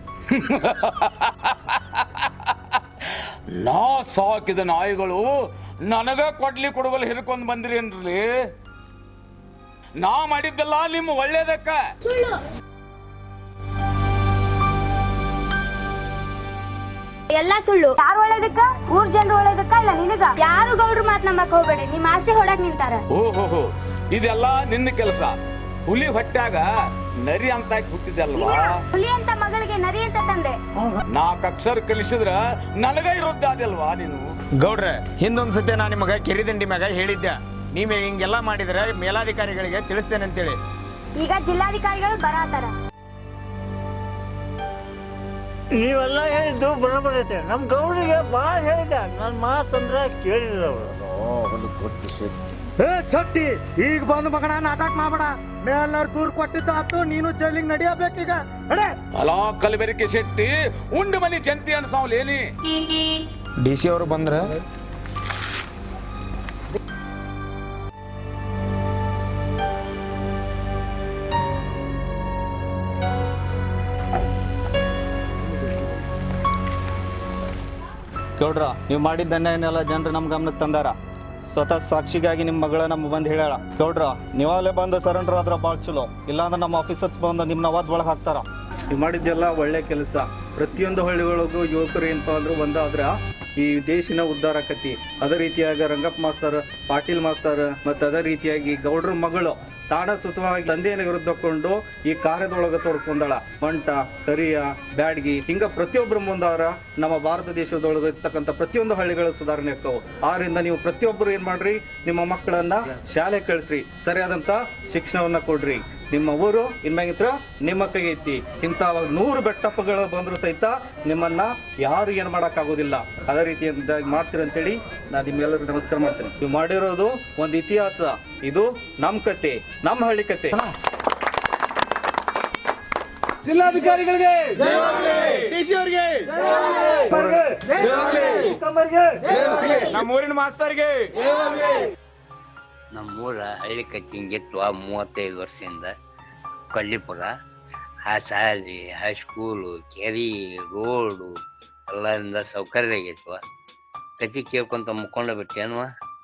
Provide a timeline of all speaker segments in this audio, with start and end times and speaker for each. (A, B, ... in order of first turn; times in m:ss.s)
0:00.3-0:08.4 A
0:10.0-0:11.8 A
0:17.3-0:23.0 B
0:23.1-0:25.3 A
0:25.8-0:26.6 A
0:27.2-0:28.8 A
0:28.4-0:30.6 B
0:31.1-0:34.2 A
0:34.6-0:40.6 C
0:41.2-0:42.7 B
0:45.8-0:50.9 D
0:51.2-0:52.3 E
0:52.8-0:58.9 F
0:59.2-1:02.5 A
1:03.6-1:04.5 C
1:18.4-1:20.9 G
1:21.5-2:10.6 G
2:14.6-2:16.3 C
2:16.5-2:19.3 D
2:17.9-2:18.4 C
2:19.3-2:21.8 C
2:22.9-2:25.9 E
2:26.7-2:27.3 E
2:28.0-2:31.3 E
2:31.9-2:33.4 E
2:34.2-2:35.9 E